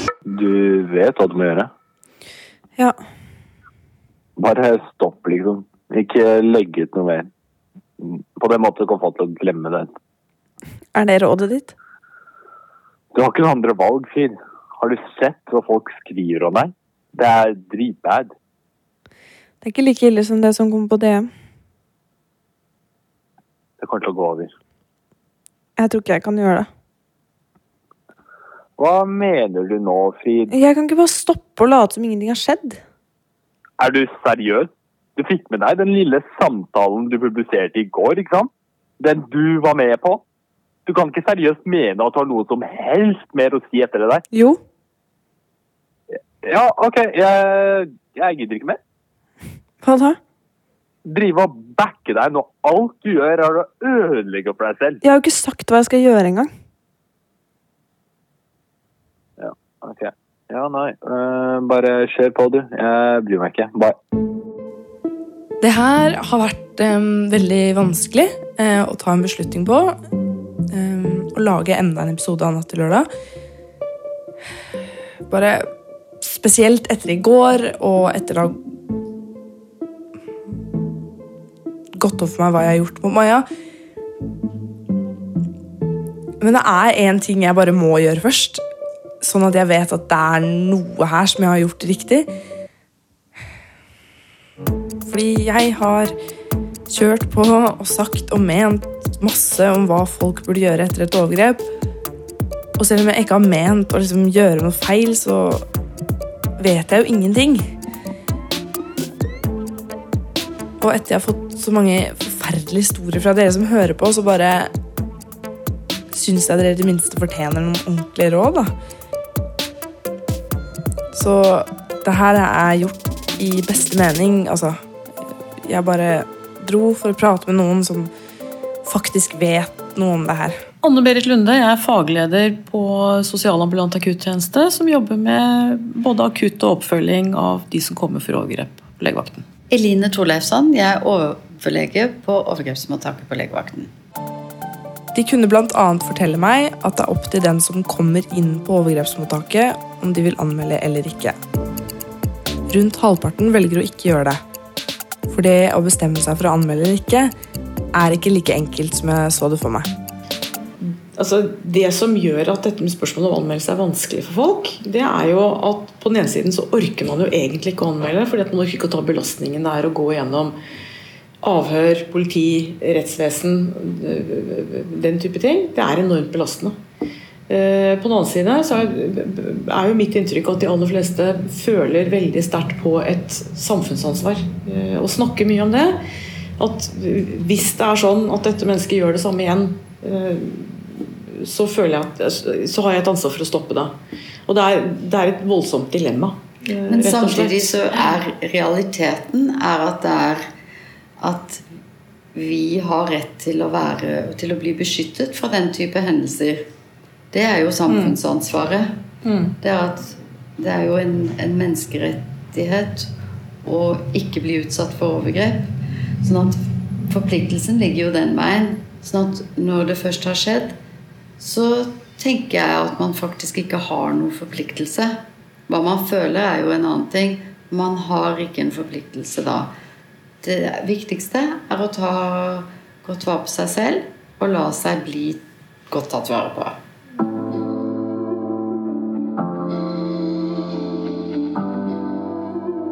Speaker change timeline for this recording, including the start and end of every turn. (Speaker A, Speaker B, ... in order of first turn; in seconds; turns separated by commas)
Speaker A: 0.3-1.7, Speaker A: 4.4-7.3, Speaker A: 8.0-9.9, Speaker B: 11.0-11.7, Speaker C: 11.0-11.3, Speaker A: 13.1-18.3, Speaker B: 19.7-21.2, Speaker C: 19.7-21.2, Speaker A: 23.8-24.5, Speaker C: 25.8-26.7, Speaker A: 28.8-30.5, Speaker C: 30.5-32.8, Speaker A: 33.8-40.2, Speaker A: 40.9-44.2, Speaker A: 46.4-48.8, Speaker C: 49.8-50.2, Speaker A: 51.0-55.0, Speaker C: 55.0-56.5, Speaker A: 59.4-63.9, Speaker B: 65.6-70.0, Speaker B: 70.7-73.0, Speaker B: 75.3-75.7, Speaker B: 76.2-78.6, Speaker B: 82.0-83.4, Speaker B: 86.4-88.6, Speaker B: 89.2-92.2, Speaker B: 95.0-96.1, Speaker B: 96.9-101.6, Speaker B: 102.8-105.6, Speaker B: 106.6-107.7, Speaker B: 110.8-114.7, Speaker B: 116.1-118.7, Speaker B: 121.1-124.8, Speaker B: 125.6-128.1, Speaker B: 128.8-130.6, Speaker D: 130.8-139.4, Speaker E: 139.7-143.9, Speaker B: 145.1-151.3, Speaker B: 152.7-154.4, Speaker B: 155.3-157.3, Speaker B: 157.9-159.9, Speaker D: 160.8-170.6, Speaker D: 171.4-176.8, Speaker D: 177.5-186.0, Speaker D: 186.6-193.9, Speaker D: 194.5-198.1, Speaker E: 196.9-200.4, Speaker E: 201.2-201.6, Speaker E: 202.3-206.6, Speaker E: 207.3-208.9, Speaker D: 207.9-208.2, Speaker D: 209.2-209.5, Speaker E: 209.6-213.1, Speaker E: 213.6-215.7, Speaker E: 216.2-220.8, Speaker E: 221.4-225.2, Speaker E: 225.7-229.7, Speaker E: 230.4-236.8